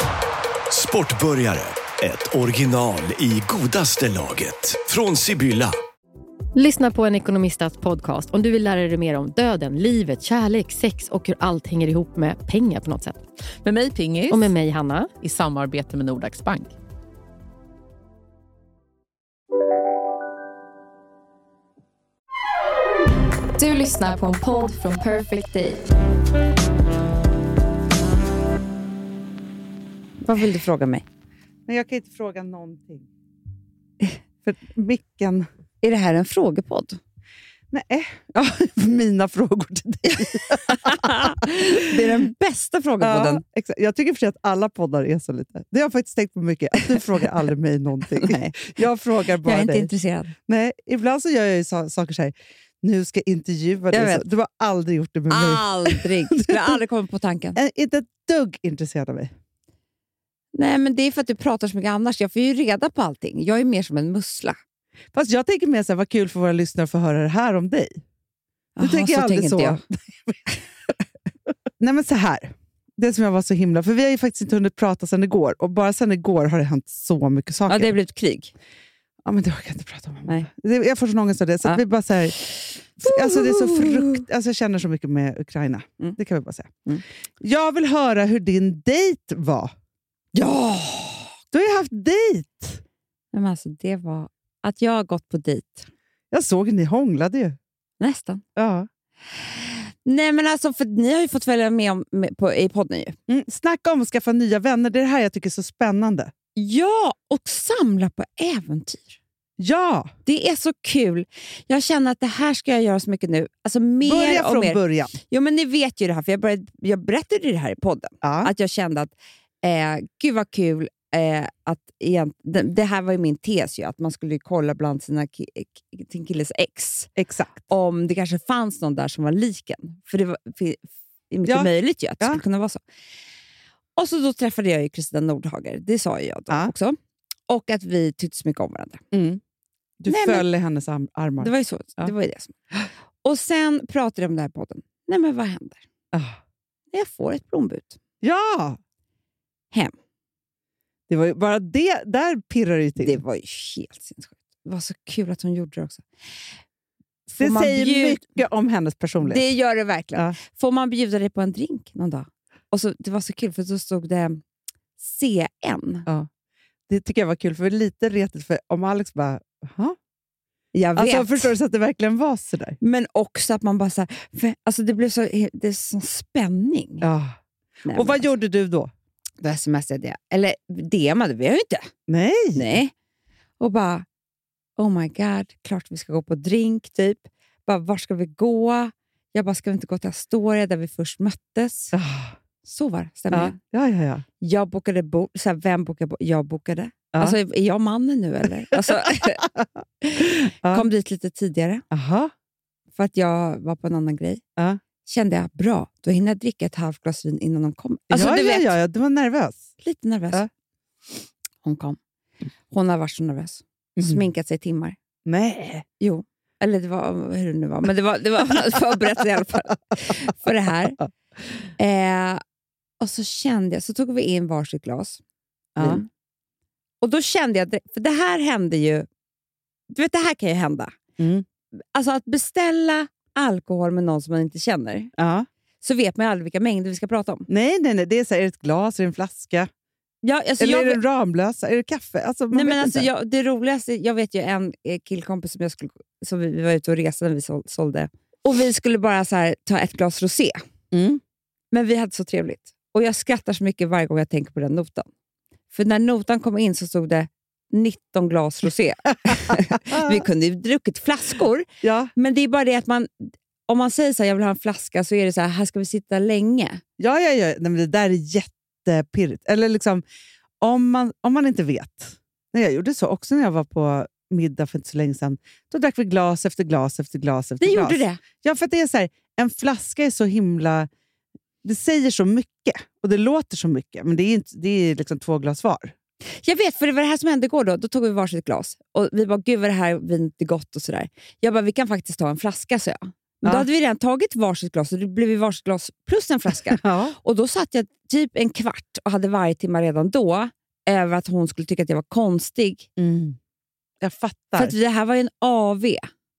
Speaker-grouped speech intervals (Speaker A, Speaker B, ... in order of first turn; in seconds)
Speaker A: 0.7-5.8
Speaker B: 6.5-13.2, 14.3-15.1
Speaker C: 13.6-14.5, 15.2-16.8
Speaker D: 23.6-25.8
Speaker E: 30.2-31.0, 35.8-37.0, 40.7-43.4, 48.2-48.5, 49.4-50.3, 53.9-54.3, 55.3-57.6, 60.5-64.6, 68.8-69.8, 77.7-78.5, 82.4-84.2, 90.3-91.3, 93.3-95.9, 98.0-98.4, 99.4-103.2, 106.6-109.2, 110.3-127.1, 127.7-132.8, 134.0-137.0, 137.5-139.0, 140.1-140.4, 141.4-142.6, 143.2-145.8, 146.9-148.0, 153.0-156.1, 157.4-158.2, 159.2-164.4, 165.0-166.1, 170.7-171.5, 172.8-177.1, 177.8-178.3, 179.4-181.9, 182.6-182.9, 183.6-184.1, 184.8-191.9, 192.6-193.6, 194.4-199.4, 200.0-201.8, 203.0-204.4, 205.1-208.7, 209.8-210.4, 211.6-212.0, 212.7-215.0, 216.0-221.0, 221.8-222.4, 223.0-225.2, 225.8-226.1, 227.0-229.1, 229.9-231.0, 231.9-235.1, 235.8-237.5, 240.2-241.0, 242.5-250.6, 251.7-255.1, 255.7-266.8, 277.6-278.2, 286.4-302.9, 304.6-306.1
Speaker F: 31.7-33.1, 34.4-35.5, 37.7-42.3, 43.0-49.9, 50.5-56.8, 57.5-59.3, 65.1-68.0, 68.8-70.4, 71.8-77.9, 79.2-82.4, 83.0-86.8, 87.4-89.7, 91.5-92.8, 96.3-97.6, 98.6-98.9, 103.3-106.3, 109.6-110.1, 114.0-115.2, 118.2-118.5, 127.2-127.7, 131.5-132.4, 139.1-139.4, 140.0-142.1, 146.1-146.4, 148.2-148.8, 151.1-153.2, 157.3-159.5, 166.9-170.0, 170.9-172.8, 177.0-177.4, 177.9-178.9, 182.1-182.7, 191.9-192.4, 193.3-194.2, 198.7-199.7, 200.2-200.9, 201.9-202.3, 208.1-209.7, 215.3-215.9, 225.8-226.0, 231.2-231.4, 235.2-235.5, 237.5-239.7, 240.6-243.1, 250.9-251.2, 259.2-260.2, 261.8-262.1, 267.0-270.0, 270.6-280.9, 281.6-285.9, 296.7-297.2, 303.0-303.4, 304.0-304.8